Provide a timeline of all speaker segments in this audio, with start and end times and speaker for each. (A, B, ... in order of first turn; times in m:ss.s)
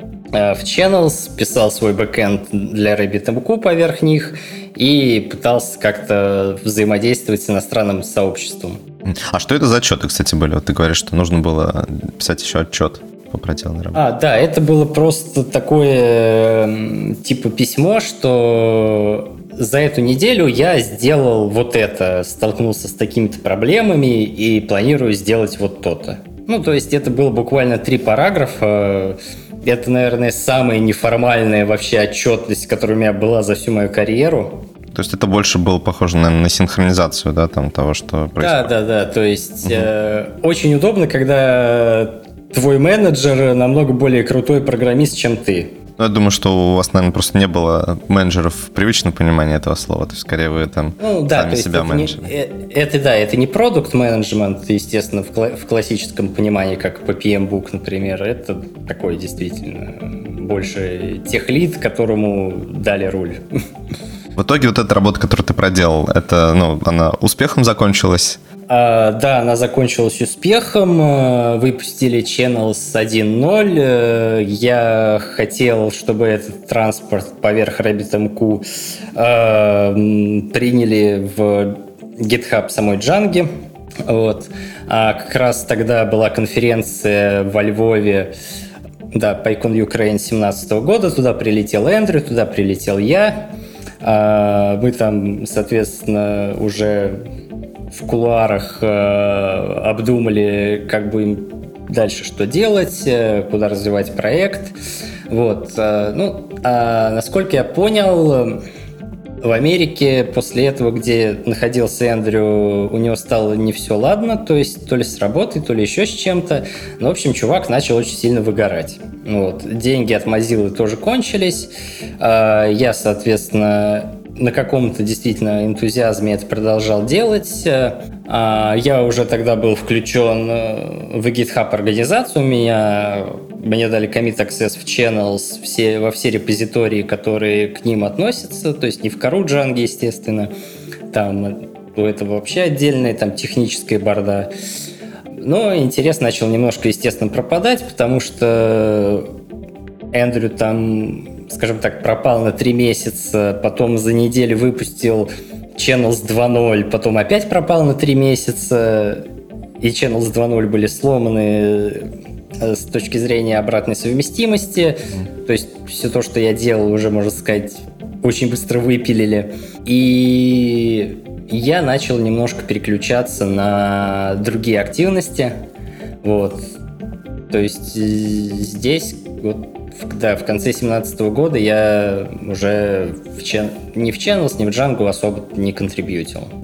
0:00.3-0:08.8 A
0:09.1-0:14.0 B
0:13.9-0:34.6 A
0:34.9-0:38.7 B
0:38.4-0:45.7 A
0:46.0-0:52.3 B
0:51.0-1:03.4 A
1:04.4-1:08.4 B
1:08.7-1:23.5 A
1:24.1-1:28.3 A
1:29.1-1:37.2 A
1:37.9-1:44.8 A
1:45.3-1:48.6 A
1:49.4-2:20.5 A
2:21.1-2:24.5 A
2:25.4-2:29.3 A
2:30.1-2:39.3 A
2:39.8-2:42.1 A
2:42.6-2:55.6 A
2:56.2-2:56.7 A
2:57.5-3:06.5 A